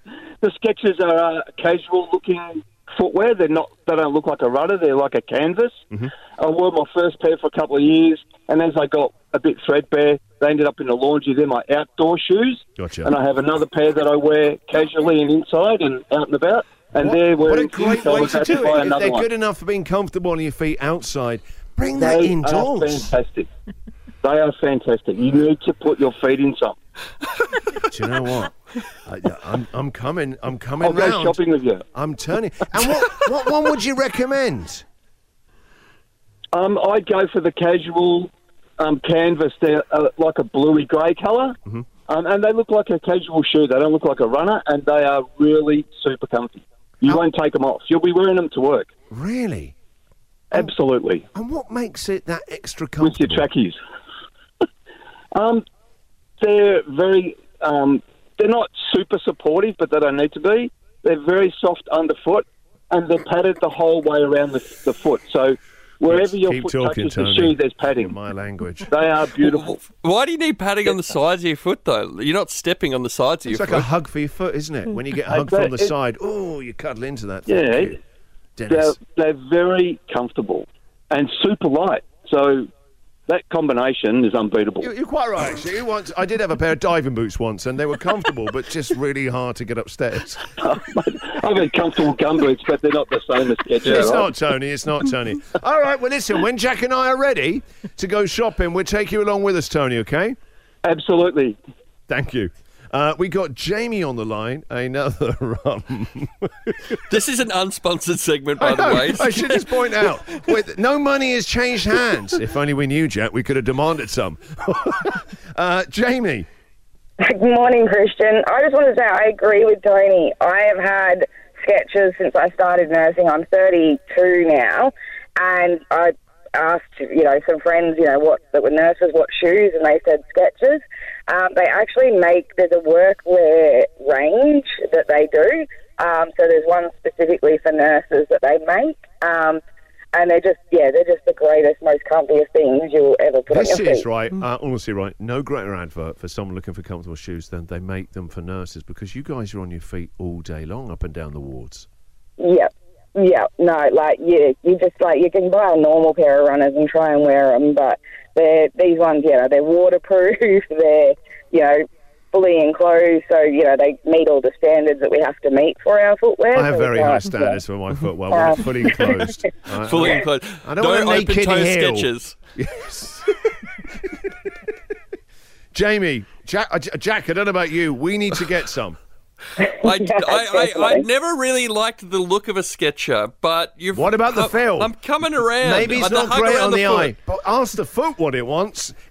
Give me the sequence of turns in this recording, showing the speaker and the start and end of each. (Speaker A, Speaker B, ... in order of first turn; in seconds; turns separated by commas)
Speaker A: 0.4-5.8, Speaker A: 6.4-19.3, Speaker B: 12.8-13.1, Speaker B: 17.0-23.1, Speaker A: 21.9-23.5, Speaker A: 24.2-26.8, Speaker B: 27.8-31.4, Speaker A: 30.8-31.8, Speaker B: 31.9-34.8, Speaker A: 36.5-48.9, Speaker B: 49.1-49.7, Speaker A: 50.5-51.2, Speaker B: 51.3-53.5, Speaker A: 53.0-53.8, Speaker A: 55.3-55.6, Speaker A: 56.4-68.2, Speaker B: 66.1-68.9, Speaker A: 68.9-69.7, Speaker C: 69.4-73.9, Speaker B: 73.5-78.0, Speaker A: 75.3-75.9, Speaker A: 77.5-78.0, Speaker B: 78.6-79.0, Speaker A: 78.7-82.7, Speaker A: 83.3-84.9, Speaker B: 84.8-90.4, Speaker A: 90.6-94.3, Speaker C: 93.8-94.2, Speaker B: 93.8-100.3, Speaker A: 100.8-101.6, Speaker B: 102.1-107.0, Speaker C: 107.1-109.8, Speaker B: 108.6-116.5, Speaker D: 117.2-139.6, Speaker D: 140.1-144.1, Speaker B: 143.5-151.9, Speaker D: 152.4-167.6, Speaker B: 166.5-174.1, Speaker D: 168.3-169.4, Speaker C: 169.8-172.3, Speaker B: 175.7-179.0, Speaker D: 179.6-181.1, Speaker C: 179.8-187.1, Speaker B: 183.9-184.9, Speaker B: 185.6-188.9